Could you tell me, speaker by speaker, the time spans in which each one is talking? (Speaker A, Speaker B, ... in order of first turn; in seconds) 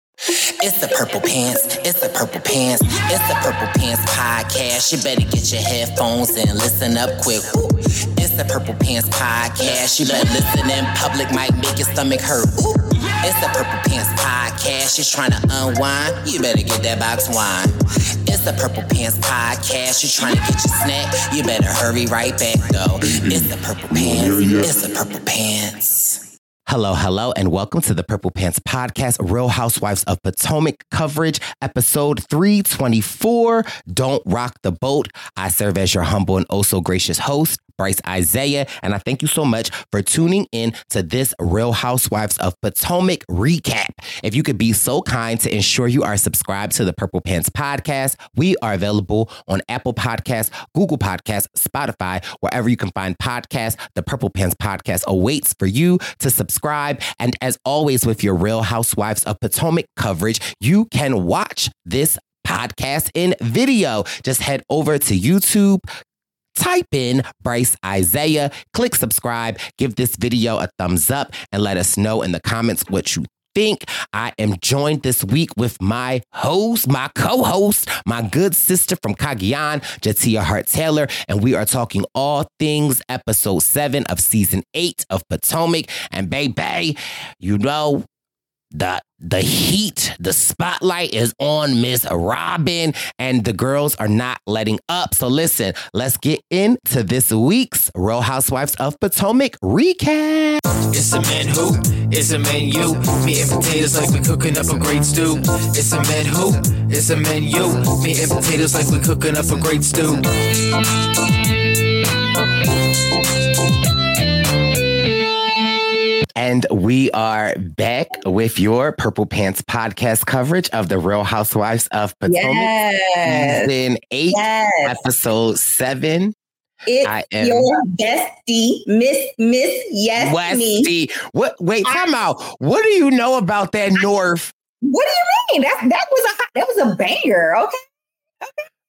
Speaker A: 0.6-65.8, 66.6-88.0, 88.7-100.6, 116.4-122.7, 123.2-126.3, 127.0-127.7, 130.2-134.5
Speaker B: 100.9-110.2
Speaker C: 122.3-123.7, 124.3-125.0, 126.9-130.9, 134.8-137.8